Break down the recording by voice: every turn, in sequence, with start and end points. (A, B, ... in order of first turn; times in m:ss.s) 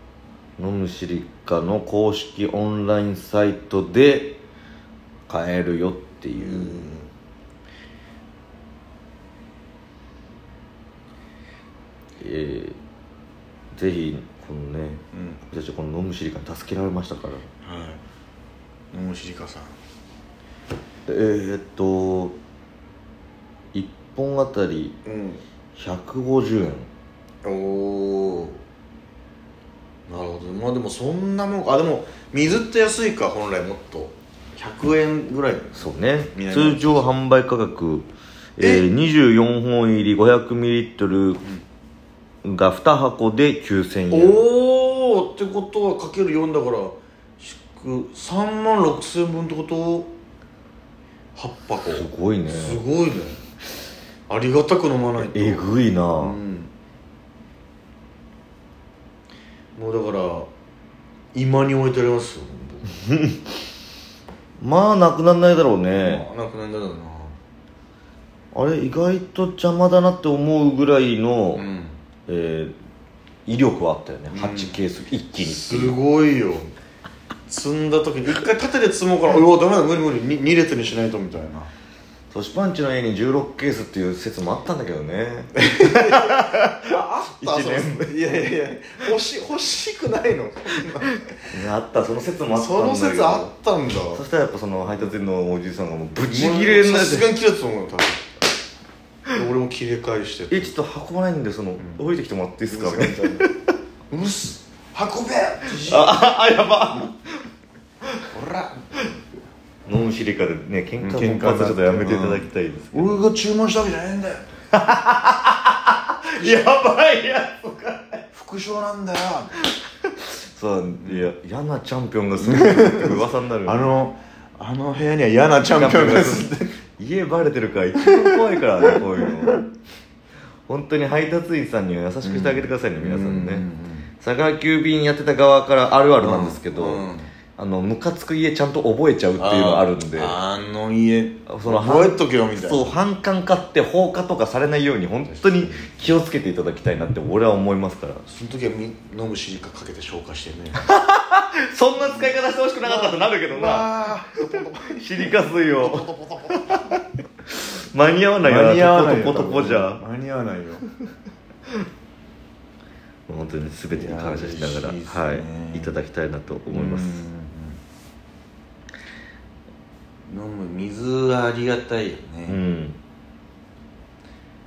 0:00.6-0:04.4 A
0:05.3-0:06.9 A
0:06.4-0:07.1 B
0:12.2-0:12.8 A
0:13.7-0:17.5 A
0:15.1-0:15.4 B
0:17.6-0:18.0 B
0:18.9-0:19.7 B
0:21.1-0:22.4 A
0:23.7-0:25.0 A
0:25.0-0:25.4 B
0:25.8-0:26.9 A
0:27.4-0:28.6 B
0:30.1-0:37.2 B
0:35.8-0:41.4 A
0:38.6-0:38.9 B
0:42.4-0:44.4 A
0:44.1-0:50.1 B
0:51.4-0:53.5 B
0:51.8-0:52.8 A
0:54.3-0:56.7 B
0:55.2-0:56.4 A
0:59.8-1:00.5 B
1:01.3-1:03.0 B
1:03.1-1:03.4 A
1:04.6-1:06.2 A
1:06.0-1:07.4 B
1:08.5-1:11.7 A
1:11.6-1:12.0 B
1:12.3-1:12.8 A
1:13.5-1:16.0 A
1:14.3-1:14.8 B
1:15.4-1:16.7 B
1:17.5-1:21.7 B
1:22.3-1:28.4 A
1:25.6-1:31.4 B
1:31.5-1:33.5 A
1:32.5-1:34.2 B
1:34.1-1:37.3 A
1:36.2-1:38.2 B
1:39.3-1:40.8 B
1:40.5-1:43.6 A
1:42.7-1:43.5 B
1:44.1-1:46.2 B
1:45.8-1:47.4 A
1:48.3-1:48.9 B
1:49.9-1:53.2 A
1:51.0-1:54.5 B
1:54.7-1:58.2 A
1:56.4-1:56.7 B
1:58.3-1:59.6 B
2:00.0-2:03.8 A
2:01.0-2:01.3 B
2:02.4-2:06.8 B
2:05.7-2:09.6 A
2:08.2-2:09.6 B
2:10.7-2:13.6 A
2:12.2-2:14.1 B
2:14.2-2:17.0 A
2:16.2-2:17.3 B
2:17.6-2:20.4 A
2:19.4-2:23.0 B
2:21.5-2:28.2 A
2:25.3-2:26.1 B
2:28.2-2:30.8 B
2:30.8-2:33.9 A
2:32.0-2:37.0 B
2:35.0-2:40.0 A
2:38.4-2:40.8 B
2:43.3-2:47.3 A
2:43.9-2:46.0 B
2:46.7-2:47.8 B
2:50.3-2:52.6 B
2:52.5-2:53.0 A